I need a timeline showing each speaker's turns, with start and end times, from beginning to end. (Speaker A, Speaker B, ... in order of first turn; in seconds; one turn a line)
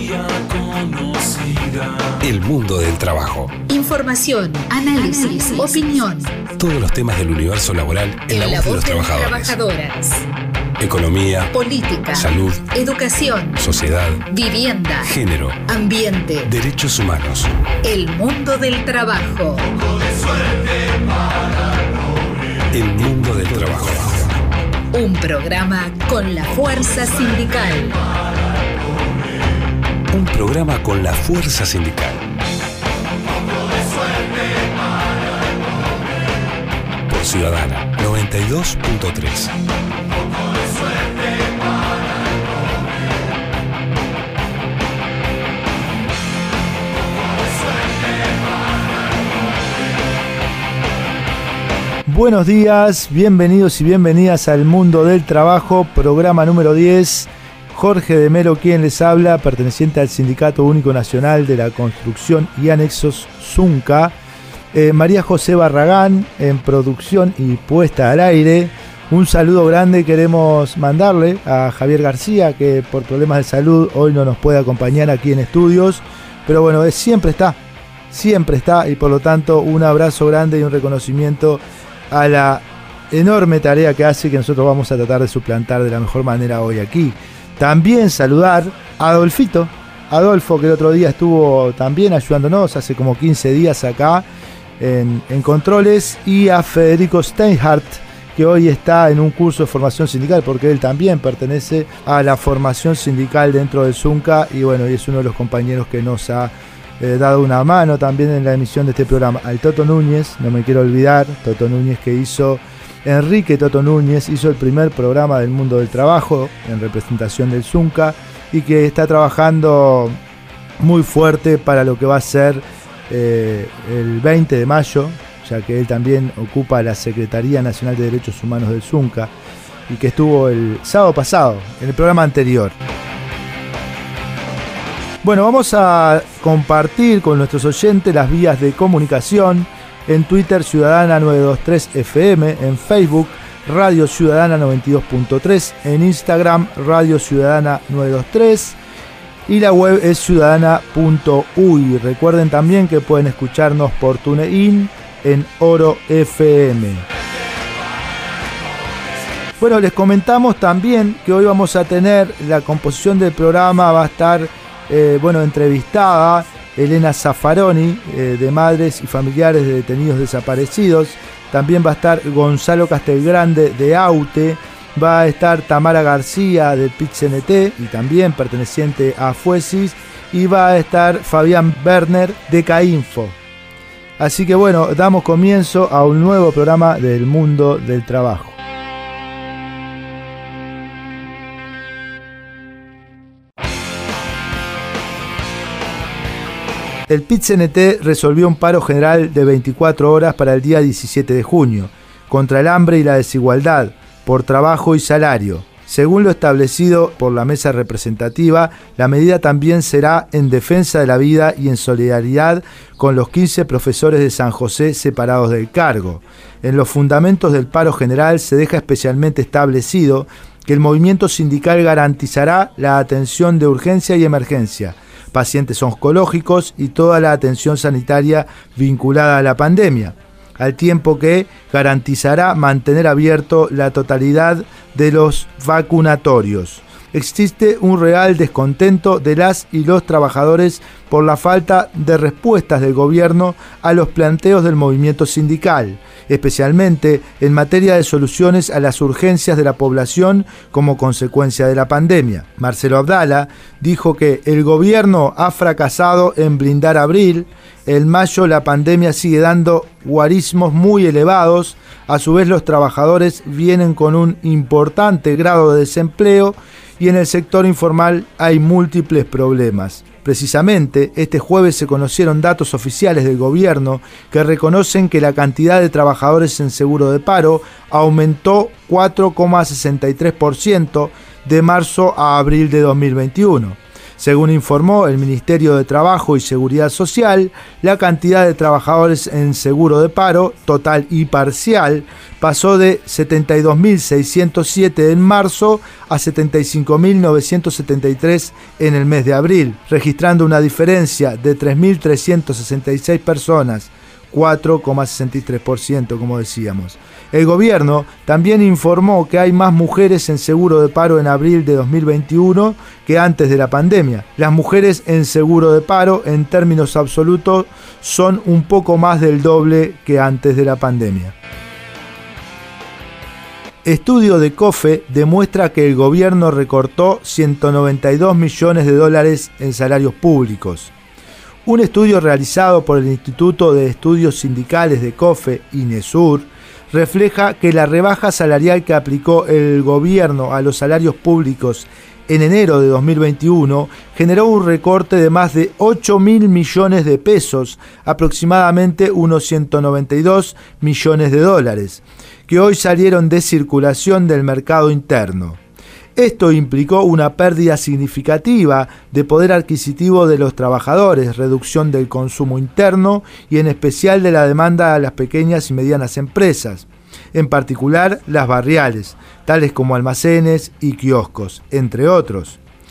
Speaker A: 2.2-3.5
Speaker B: 3.7-6.3
Speaker A: 6.5-9.6
Speaker B: 8.3-10.2
Speaker A: 10.8-11.5
Speaker B: 11.5-13.6
Speaker A: 12.1-12.7
Speaker A: 13.6-14.2
Speaker B: 14.3-15.1
Speaker A: 15.0-15.6
Speaker B: 15.7-16.5
Speaker A: 16.4-17.5
Speaker B: 17.8-19.7
Speaker A: 22.7-24.4
Speaker B: 24.9-28.0
Speaker A: 30.1-32.2
Speaker A: 37.1-39.5
Speaker C: 52.0-64.1
Speaker C: 64.7-77.6
Speaker C: 78.1-94.2
Speaker C: 94.8-120.2
Speaker C: 120.8-129.3
Speaker C: 129.9-132.7
Speaker C: 135.2-148.8
Speaker C: 149.5-157.0
Speaker C: 159.6-183.4
Speaker C: 184.2-188.6
Speaker C: 197.1-321.3
Speaker C: 323.8-330.9
Speaker C: 331.6-355.6
Speaker C: 356.1-372.6